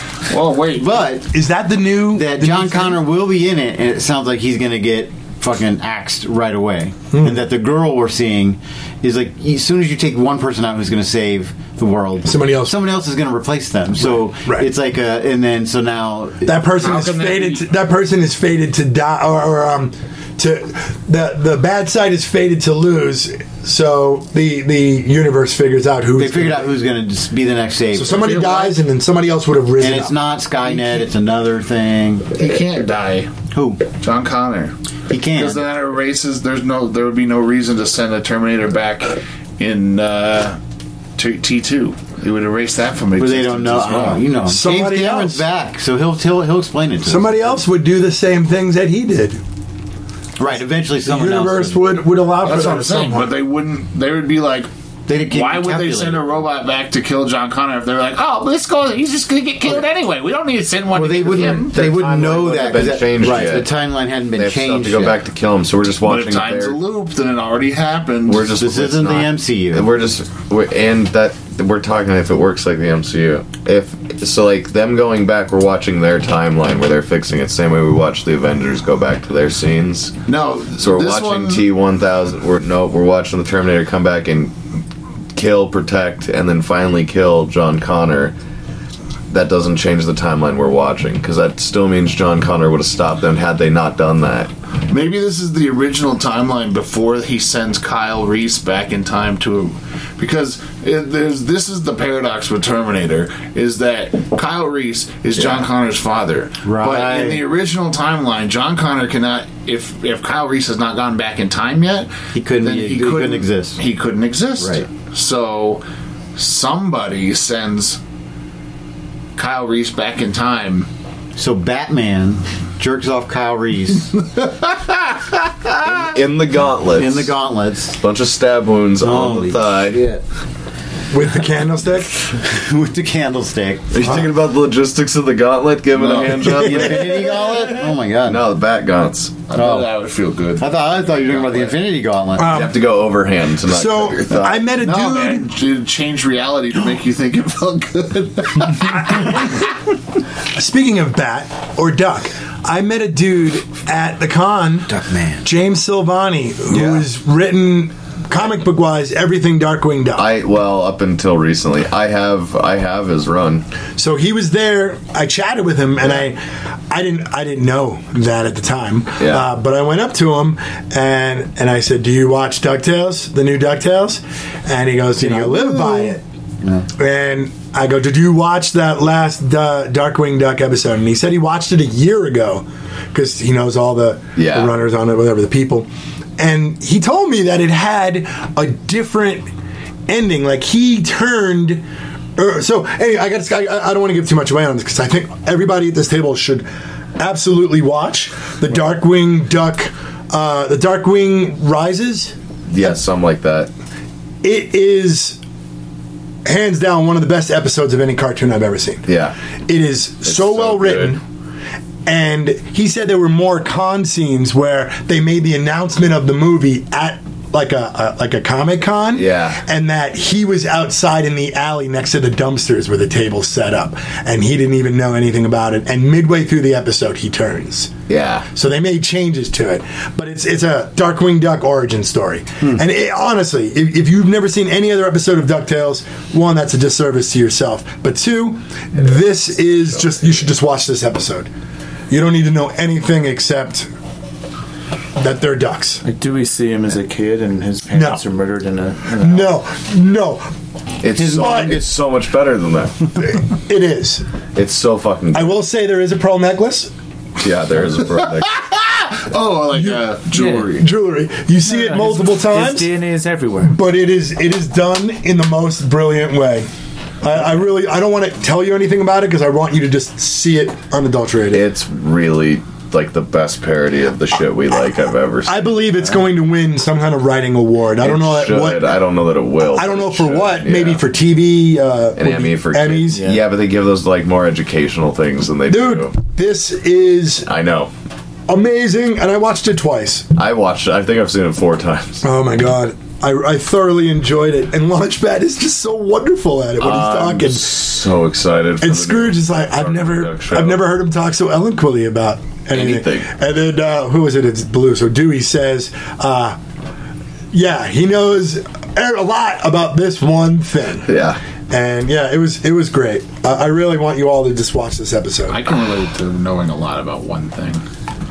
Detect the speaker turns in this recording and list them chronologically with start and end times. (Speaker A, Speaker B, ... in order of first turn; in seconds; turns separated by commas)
Speaker A: 0.3-1.1, Speaker B: 0.7-1.3, Speaker C: 1.3-3.0, Speaker B: 2.1-16.6, Speaker C: 7.1-7.4, Speaker C: 12.2-12.8, Speaker C: 14.0-14.7, Speaker C: 16.4-26.8, Speaker A: 16.8-17.6, Speaker B: 26.2-28.4, Speaker C: 27.9-30.1, Speaker A: 28.1-28.8, Speaker B: 29.8-32.3, Speaker A: 32.4-33.3, Speaker B: 33.5-33.9, Speaker A: 33.9-34.7, Speaker B: 35.1-35.7, Speaker A: 35.3-40.6, Speaker A: 41.2-44.3, Speaker B: 43.2-47.6, Speaker C: 44.5-45.5, Speaker C: 47.0-49.4, Speaker B: 50.4-51.8, Speaker C: 51.0-53.3, Speaker A: 52.4-54.7, Speaker B: 55.1-56.4, Speaker A: 55.3-61.8, Speaker B: 60.9-65.2, Speaker D: 61.7-63.7, Speaker D: 64.3-66.8, Speaker A: 66.0-68.7, Speaker D: 68.3-80.2, Speaker B: 68.6-69.9, Speaker A: 80.3-81.7, Speaker D: 80.8-84.5, Speaker D: 85.3-88.3, Speaker D: 89.3-94.5, Speaker A: 94.9-115.8, Speaker D: 105.4-105.7, Speaker B: 106.6-107.5, Speaker B: 112.3-113.8, Speaker B: 114.6-114.9, Speaker A: 116.4-118.0, Speaker A: 119.4-120.9, Speaker B: 121.4-124.2, Speaker A: 124.4-125.2, Speaker D: 125.8-127.4, Speaker B: 127.0-128.0, Speaker D: 128.0-130.1, Speaker B: 129.0-130.0, Speaker A: 129.9-130.2, Speaker C: 131.1-132.2, Speaker B: 132.2-134.2, Speaker D: 133.9-137.6, Speaker A: 136.0-136.6, Speaker B: 136.2-138.4, Speaker D: 138.2-139.4, Speaker A: 139.5-141.8, Speaker B: 139.6-140.0, Speaker B: 140.6-142.5, Speaker C: 142.4-142.9, Speaker D: 142.5-144.6, Speaker C: 143.7-145.5, Speaker A: 144.8-149.6, Speaker C: 149.2-149.4, Speaker C: 150.5-154.9, Speaker B: 154.9-155.5, Speaker C: 155.4-160.3, Speaker D: 156.7-157.0, Speaker D: 160.2-163.6, Speaker C: 164.0-176.2, Speaker D: 169.2-169.4, Speaker B: 175.2-176.9, Speaker C: 177.0-189.5, Speaker D: 184.4-184.7, Speaker C: 190.1-191.8, Speaker C: 192.4-196.7, Speaker C: 197.2-202.3, Speaker D: 202.7-203.7, Speaker C: 204.4-205.4, Speaker C: 206.4-209.1, Speaker D: 209.1-209.3, Speaker C: 209.7-211.2, Speaker D: 210.2-211.2, Speaker C: 212.1-227.9, Speaker D: 219.2-219.6, Speaker D: 228.1-228.5, Speaker C: 228.5-241.5, Speaker C: 242.1-243.9, Speaker C: 245.2-246.0, Speaker E: 246.0-249.6, Speaker C: 247.9-248.2, Speaker C: 249.2-250.5, Speaker D: 251.0-253.2, Speaker B: 251.2-251.8, Speaker C: 251.3-251.8, Speaker C: 253.2-254.2, Speaker D: 254.6-255.6, Speaker C: 255.3-256.9, Speaker D: 257.4-258.6, Speaker A: 258.4-260.9, Speaker E: 260.3-260.7, Speaker C: 260.8-262.9, Speaker E: 261.6-263.8, Speaker C: 263.6-266.7, Speaker C: 267.2-271.7, Speaker D: 271.5-275.7, Speaker C: 275.4-278.9, Speaker D: 278.0-281.0, Speaker C: 279.8-283.4, Speaker D: 282.2-286.2, Speaker C: 285.7-287.5, Speaker D: 287.5-287.9, Speaker C: 288.5-290.3, Speaker D: 290.4-292.2, Speaker C: 292.2-297.9, Speaker D: 296.8-300.8, Speaker C: 298.8-306.6, Speaker D: 302.7-303.3, Speaker C: 307.5-311.1, Speaker D: 311.1-311.4, Speaker C: 311.7-315.6, Speaker A: 315.5-317.8